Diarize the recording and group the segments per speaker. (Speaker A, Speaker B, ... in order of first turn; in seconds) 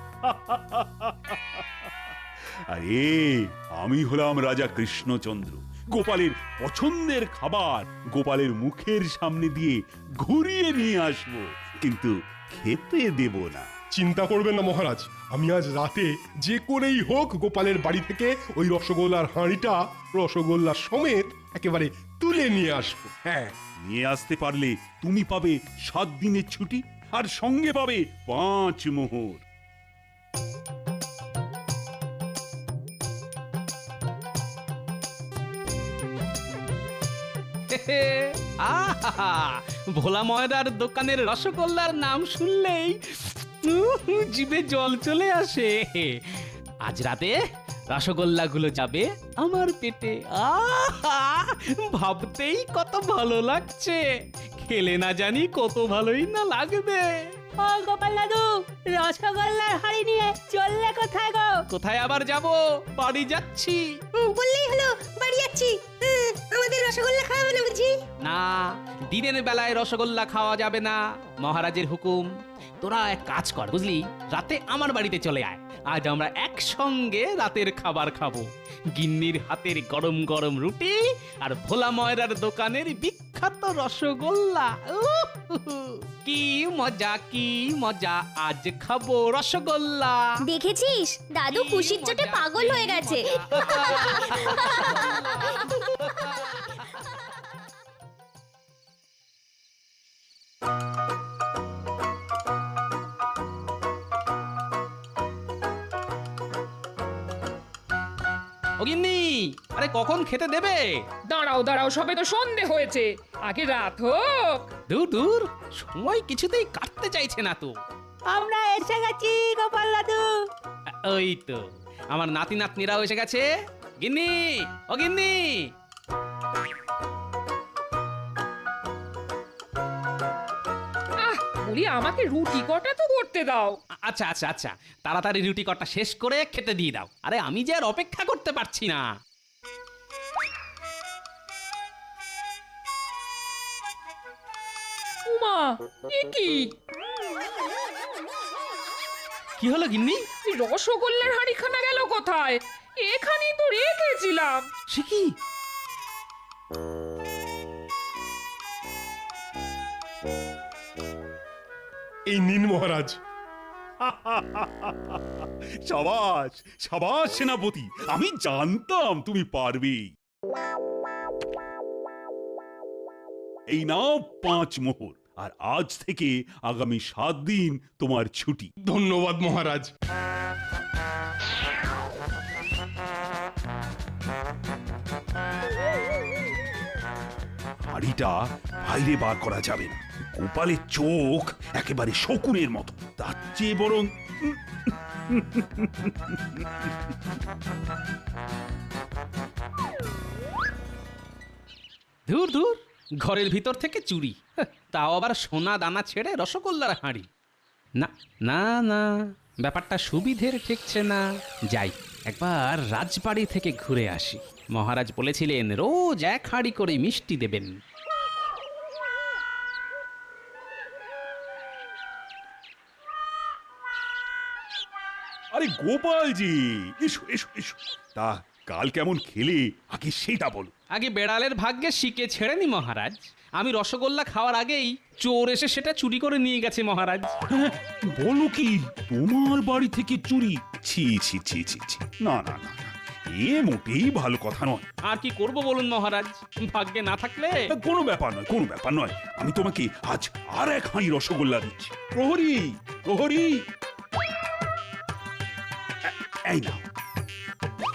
Speaker A: 0.2-1.6, 2.7-13.7, 23.8-29.4, 164.0-170.1, 173.7-178.7, 187.9-196.9, 225.5-230.7, 237.5-244.9, 247.7-253.6, 256.1-256.8
Speaker B: 14.0-23.5, 162.3-163.2, 178.9-179.9
Speaker C: 37.7-43.0, 43.6-47.4, 47.9-54.1, 54.6-57.2, 61.7-63.9, 68.2-72.3, 72.8-90.3, 91.5-96.9, 108.8-111.0, 114.9-117.7, 120.9-123.5, 124.0-125.7, 134.0-139.1, 149.6-150.2, 154.9-155.3, 202.3-207.3, 208.0-217.7, 230.9-237.3, 245.1-247.7
Speaker D: 57.6-61.6, 64.2-68.0, 118.3-120.3
Speaker E: 90.5-95.2
Speaker F: 111.3-114.7, 131.2-133.8, 145.3-146.7, 150.5-154.6